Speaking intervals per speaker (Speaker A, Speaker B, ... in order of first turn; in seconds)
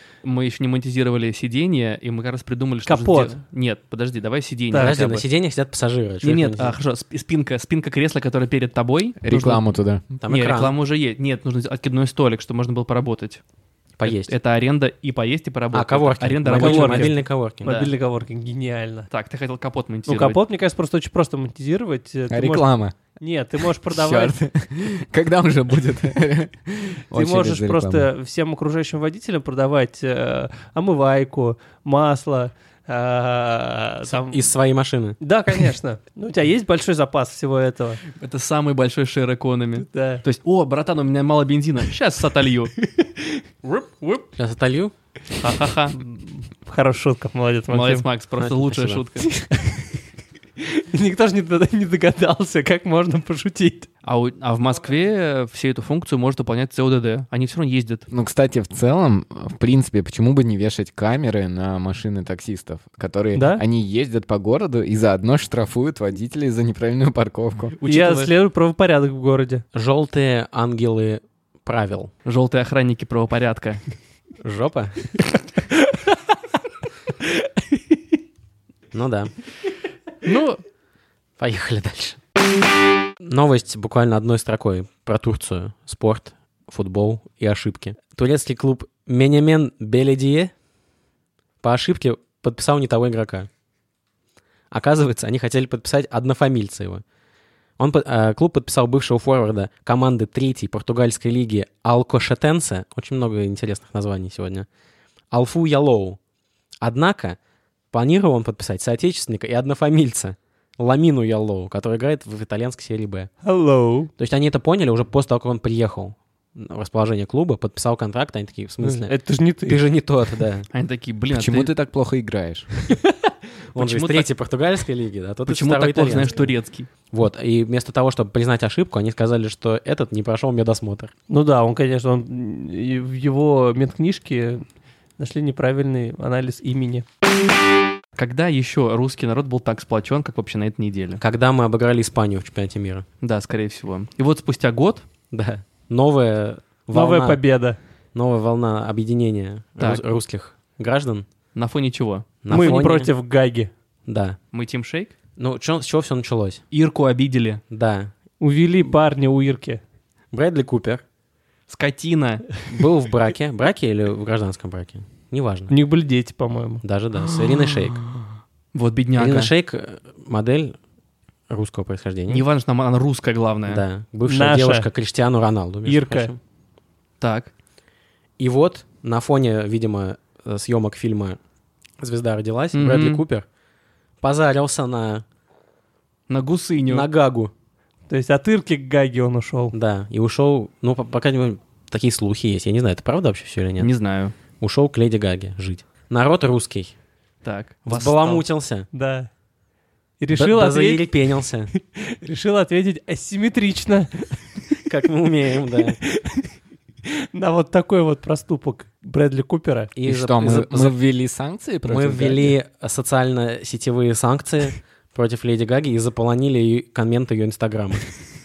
Speaker A: 0.2-5.2, 6.2-9.6, 10.3-13.4, 14.0-17.9, 19.1-20.4, 38.2-42.7, 43.6-44.2, 45.4-46.0, 47.7-49.4, 54.0-58.1, 67.8-68.3, 72.2-73.8, 80.2-80.6, 120.7-121.7, 123.8-124.3, 125.5-126.9, 138.2-141.2, 143.2-145.0, 149.8-150.0, 151.6-152.8, 154.5-155.1, 156.7-157.6, 161.7-162.6, 168.7-169.5, 172.3-173.8, 177.2-177.5, 182.7-183.2, 186.3-187.1, 193.8-194.3, 197.4-198.4
Speaker B: 2.9-3.4, 4.7-5.0, 16.5-19.1, 20.1-24.4, 27.1-34.5, 35.2-38.0, 39.8-40.2, 43.0-43.4, 46.0-48.0, 49.5-49.8, 50.6-53.9, 63.4-63.6, 67.9-69.6, 113.4-114.1, 118.8-119.8, 131.3-134.7, 135.2-137.1, 146.9-147.8, 152.5-153.7, 158.4-159.8, 165.7-166.8, 174.3-174.9, 175.9-176.3, 188.1-189.8, 198.9-199.3, 200.2-201.1, 201.7-204.4, 206.1-206.5, 207.3-209.9
Speaker C: 4.8-6.8, 10.2-10.7, 14.0-14.3, 15.7-17.7, 34.1-35.2, 44.4-44.9, 48.4-49.0, 69.7-72.1, 74.4-75.2, 78.9-79.3, 81.4-82.2, 83.2-90.5, 91.6-93.5, 94.7-97.0, 97.8-104.7, 105.3-106.2, 106.8-107.4, 107.9-113.3, 114.2-119.2, 119.7-120.7, 123.7-126.5, 127.1-131.1, 141.2-143.1, 145.3-147.4, 148.1-151.3, 152.4-153.1, 154.1-154.4, 155.4-156.6, 157.7-158.1, 160.3-161.0, 162.7-165.7, 166.8-168.0, 169.2-170.8, 171.5-172.4, 173.7-176.4, 178.4-181.4, 182.0-183.5, 184.2-185.2, 186.9-187.5, 189.7-193.9, 194.6-196.9, 197.9-198.9, 200.3-201.7, 204.9-206.0, 209.9-210.9, 211.9-218.2
Speaker D: 9.2-10.1, 22.3-23.0, 23.9-28.1, 58.1-67.8, 121.3-122.7, 210.0-212.6